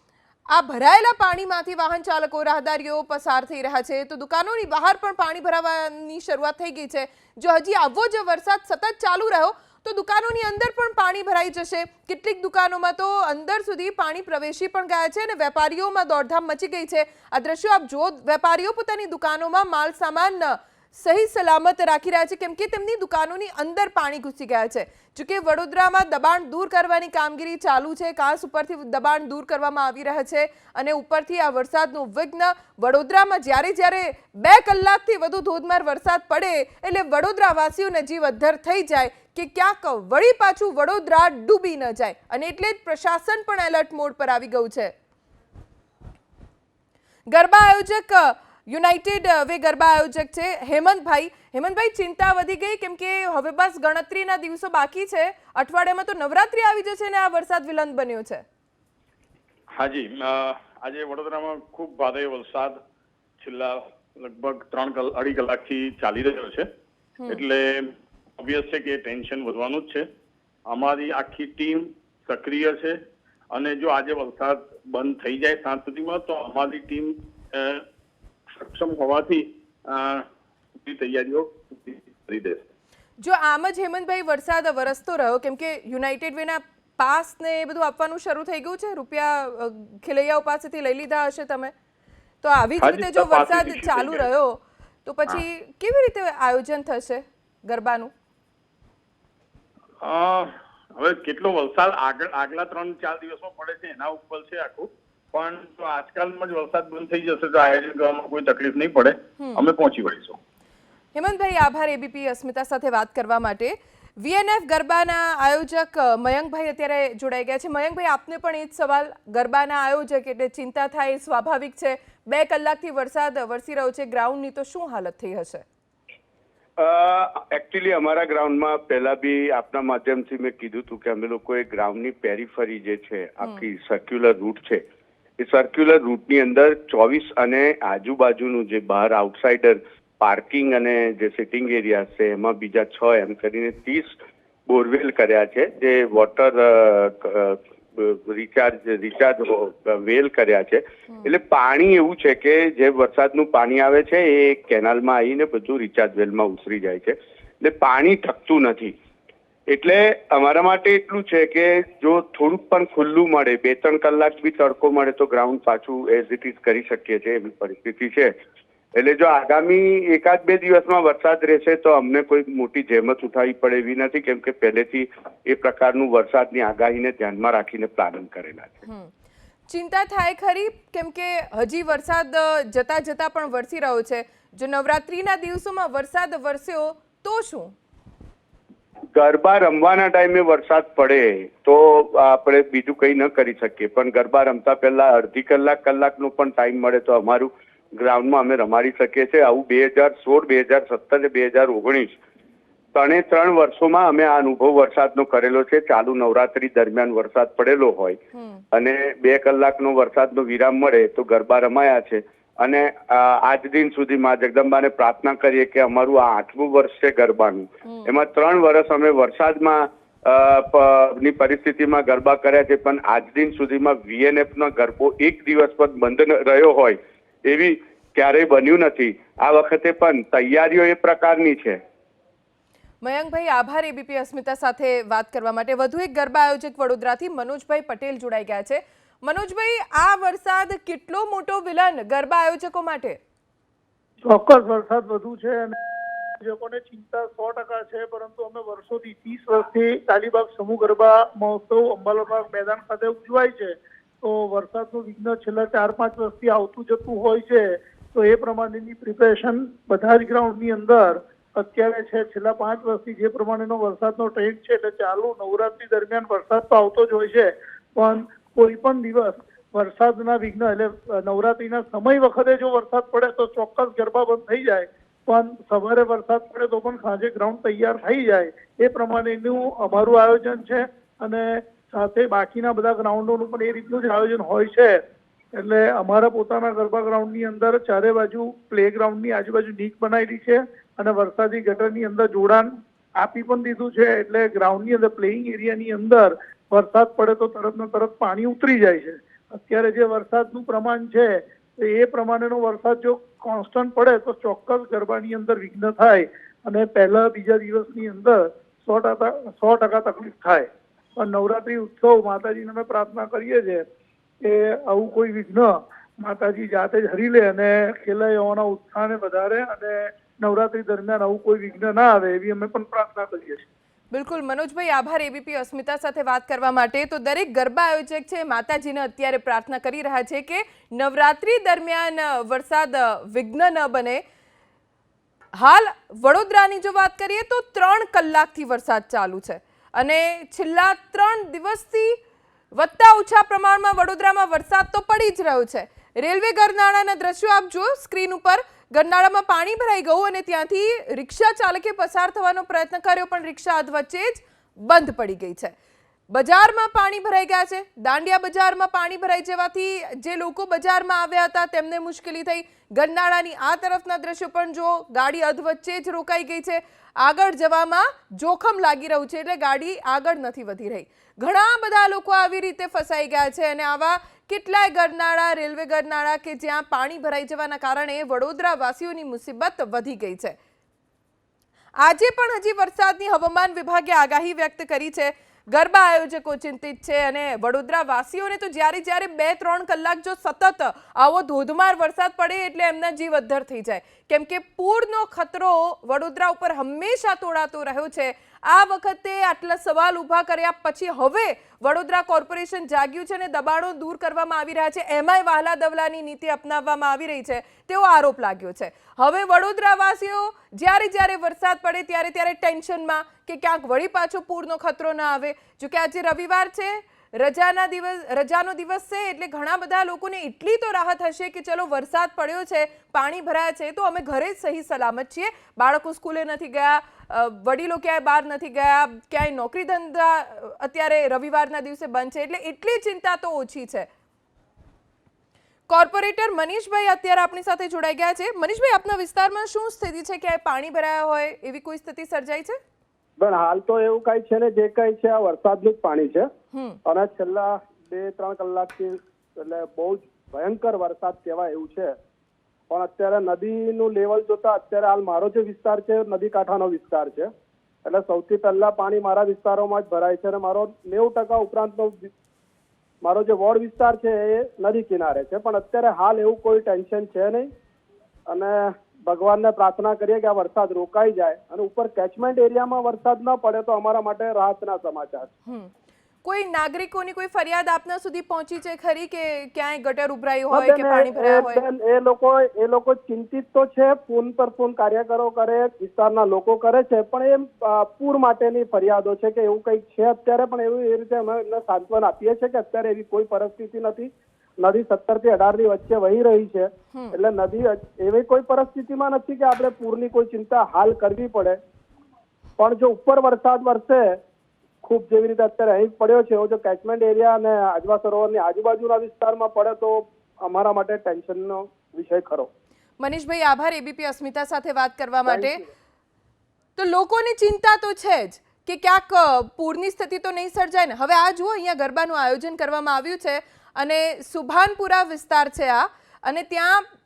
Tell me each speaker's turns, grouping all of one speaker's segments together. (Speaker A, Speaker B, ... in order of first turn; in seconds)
Speaker A: 0.5-44.9, 47.3-58.4, 67.2-67.5, 83.2-91.7, 92.4-98.1, 109.4-109.6, 111.1-125.6, 179.7-187.7, 208.3-208.6, 233.0-243.2, 324.1-334.2, 335.5-342.2, 342.7-355.7, 356.3-380.6, 382.0-434.1, 435.9-442.8, 476.4-481.8, 513.2-515.8, 517.0-527.0
Speaker B: 59.7-62.8, 63.4-66.7, 67.3-70.0, 70.7-73.0, 73.5-77.8, 78.6-80.2, 80.8-82.6, 92.8-94.2, 100.0-110.4
Speaker C: 126.8-134.8, 135.4-158.9, 159.7-168.3, 168.9-178.8, 189.1-202.2, 202.9-208.2, 208.7-231.8
Speaker D: 244.2-245.7, 246.4-285.0, 285.5-313.8, 314.4-323.6
Speaker E: 443.4-446.5, 447.1-452.2, 452.9-457.5, 458.0-462.3, 463.2-467.7, 468.5-475.5, 480.7-501.8, 502.8-504.4, 505.0-512.7, 515.5-515.9